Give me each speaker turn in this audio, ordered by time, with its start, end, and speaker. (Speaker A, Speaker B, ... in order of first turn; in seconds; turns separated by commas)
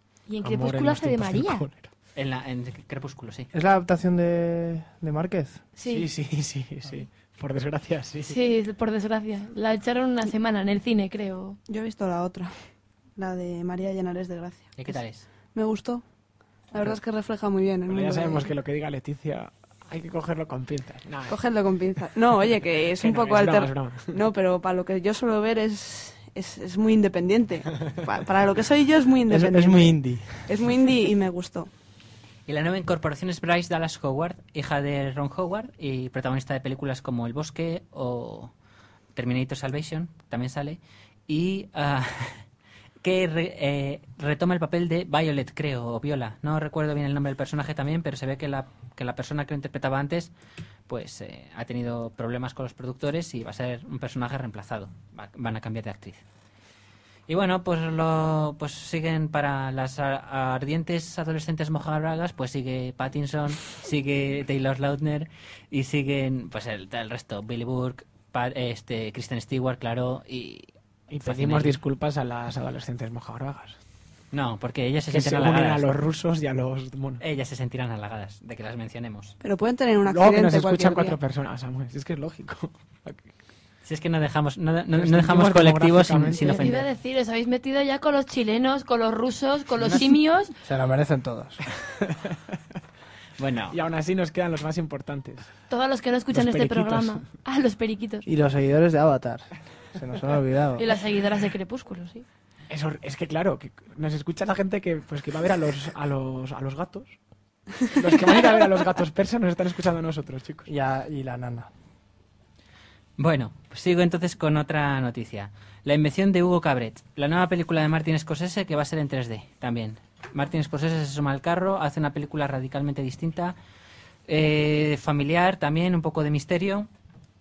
Speaker A: 0.3-1.7, Speaker B: 0.4-1.9, Speaker C: 2.1-3.5, Speaker D: 3.5-5.6, Speaker A: 5.8-6.1, Speaker B: 5.8-8.3, Speaker A: 8.3-11.6, Speaker E: 11.7-12.6, Speaker E: 13.2-15.0, Speaker C: 14.8-15.3, Speaker E: 15.5-16.1, Speaker E: 16.7-18.5, Speaker B: 17.9-21.4, Speaker E: 21.3-31.7, Speaker B: 23.0-24.2, Speaker D: 29.3-30.5, Speaker C: 32.5-38.5, Speaker C: 39.1-42.4, Speaker C: 43.0-50.3, Speaker C: 50.9-56.2, Speaker C: 57.3-70.7, Speaker B: 71.1-73.8, Speaker C: 71.2-71.8, Speaker C: 74.3-75.9, Speaker B: 75.1-77.2, Speaker C: 77.2-79.3, Speaker E: 79.4-81.2, Speaker B: 80.1-83.3, Speaker C: 83.8-86.9, Speaker B: 85.0-86.7, Speaker A: 86.4-90.5, Speaker D: 90.6-91.6, Speaker C: 93.4-93.8, Speaker B: 93.7-95.5, Speaker A: 95.7-98.2, Speaker D: 96.3-97.1, Speaker D: 98.3-100.9, Speaker A: 100.8-102.2, Speaker B: 102.7-107.2, Speaker B: 107.9-110.7, Speaker D: 110.7-111.7, Speaker C: 113.2-123.6, Speaker C: 124.3-126.9